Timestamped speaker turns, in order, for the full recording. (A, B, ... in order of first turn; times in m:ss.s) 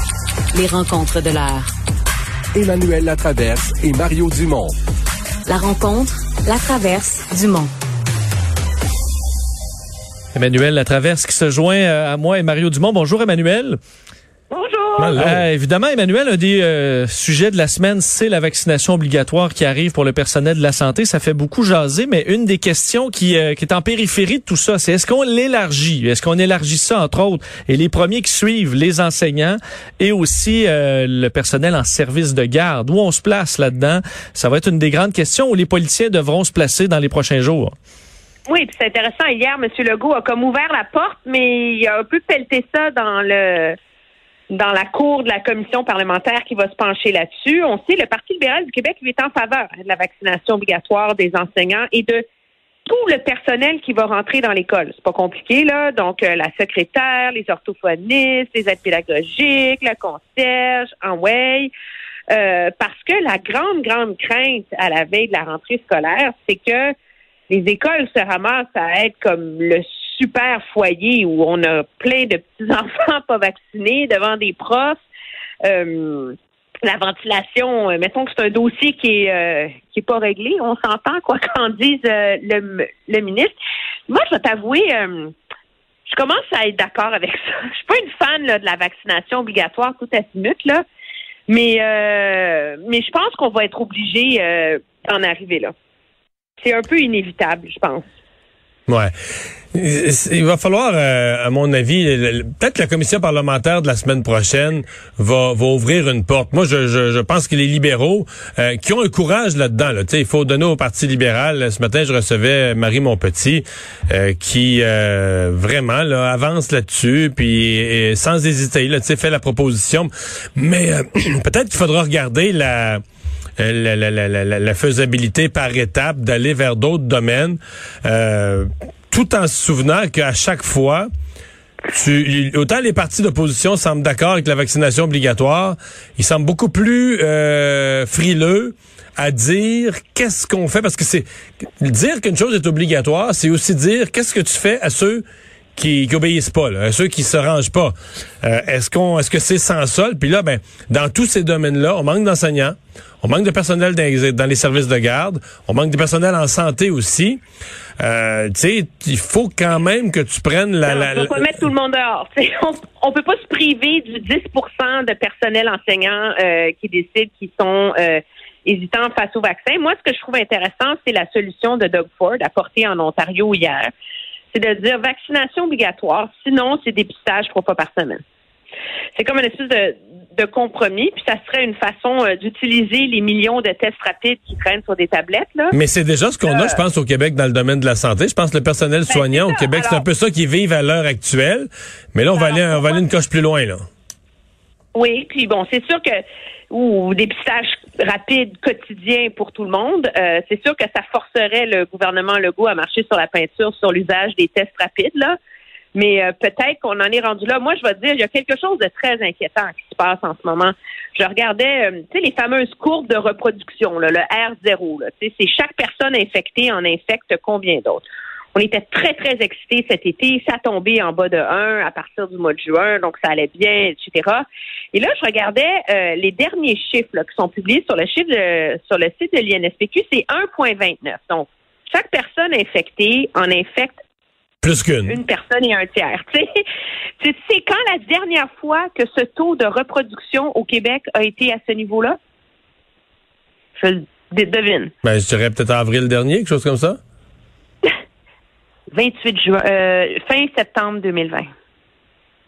0:00.5-0:01.7 A
0:02.6-0:04.8 B
0:05.5-0:07.7 A
0:10.3-0:13.8 C
0:14.5-0:15.2 D
0:15.0-0:15.5 E
0:15.2-0:37.8 C
0:38.5-0:43.8 D
0:44.5-0:52.2 D
0:52.9-1:01.7 D
1:02.3-1:06.9 D
1:07.5-1:15.0 D
1:15.6-1:23.6 D
1:24.1-1:25.3 D
1:26.1-1:30.8 D
1:31.5-1:35.7 D
1:36.6-1:38.0 D
1:39.7-2:03.0 E
2:03.6-2:11.1 E
2:11.9-2:21.3 E
2:21.8-2:37.4 E
2:38.0-2:41.5 E
2:40.9-2:53.9 D
2:54.5-2:58.2 D
2:59.2-3:05.8 D
3:05.7-3:13.8 E
3:06.5-3:06.8 D
3:09.1-3:10.0 D
3:12.3-3:13.0 D
3:14.9-3:16.2 D
3:16.7-3:25.4 D
3:26.0-3:54.0 D
3:54.6-3:55.2 E
3:55.1-3:56.6 D
3:57.2-4:02.2 D
4:03.8-4:04.9 D
4:05.0-4:07.0 E
4:08.9-4:11.5 D